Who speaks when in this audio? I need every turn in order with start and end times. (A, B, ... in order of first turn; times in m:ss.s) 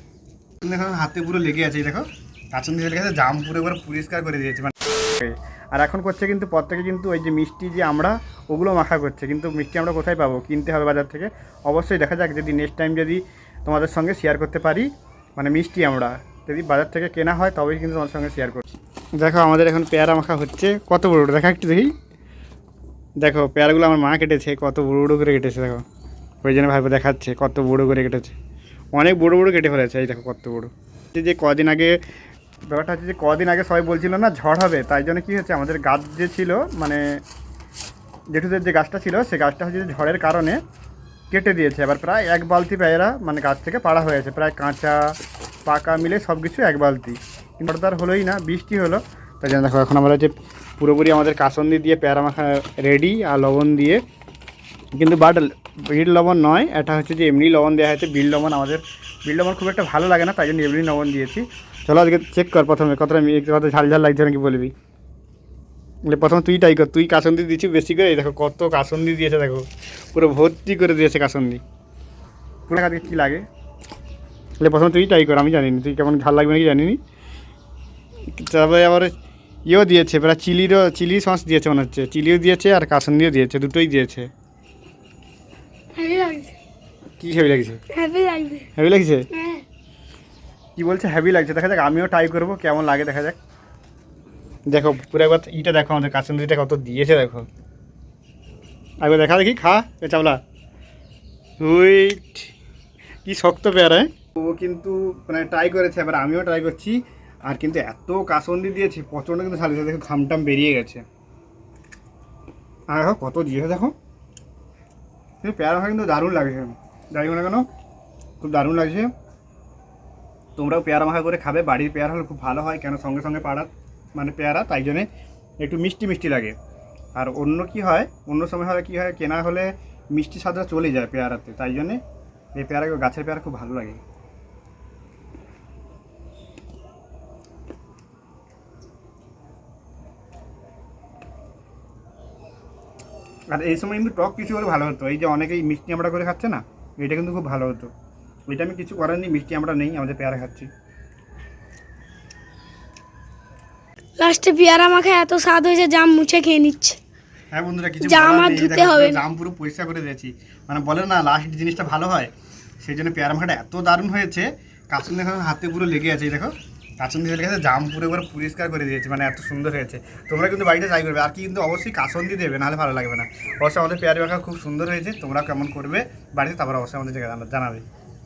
0:00.6-0:18.6 A
0:19.2-0:21.9 A
0:23.2-0:25.8 A
0:26.4-0:28.4 A
0:28.9-0:32.0 A
0:32.7-0:37.0 A
0:38.3-0:40.6 A
0:41.3-0:45.1 A
0:45.7-0:54.0 A
0:55.0-1:04.7 A
1:06.1-1:11.6 A
1:12.7-1:13.4 A
1:14.6-1:17.0 A
1:18.3-1:19.1 A
1:19.7-1:24.3 A
1:26.0-1:26.5 B
1:27.2-1:27.8 A
1:27.9-1:28.7 B
1:28.8-1:29.3 A
1:29.3-1:29.6 B
1:30.8-1:33.4 A
1:34.7-1:37.5 A
1:39.0-1:40.4 A
1:41.6-1:42.5 A
1:43.2-1:51.0 A
1:52.9-1:53.9 A
1:55.4-1:57.6 A
1:58.4-1:59.1 A
2:00.6-2:05.1 A
2:05.6-2:06.6 A
2:07.1-2:12.0 A
2:12.6-2:14.0 A
2:23.5-2:27.9 A
2:28.5-2:30.7 A
2:34.2-2:37.0 B
2:37.5-2:57.8 A
2:38.0-2:39.2 B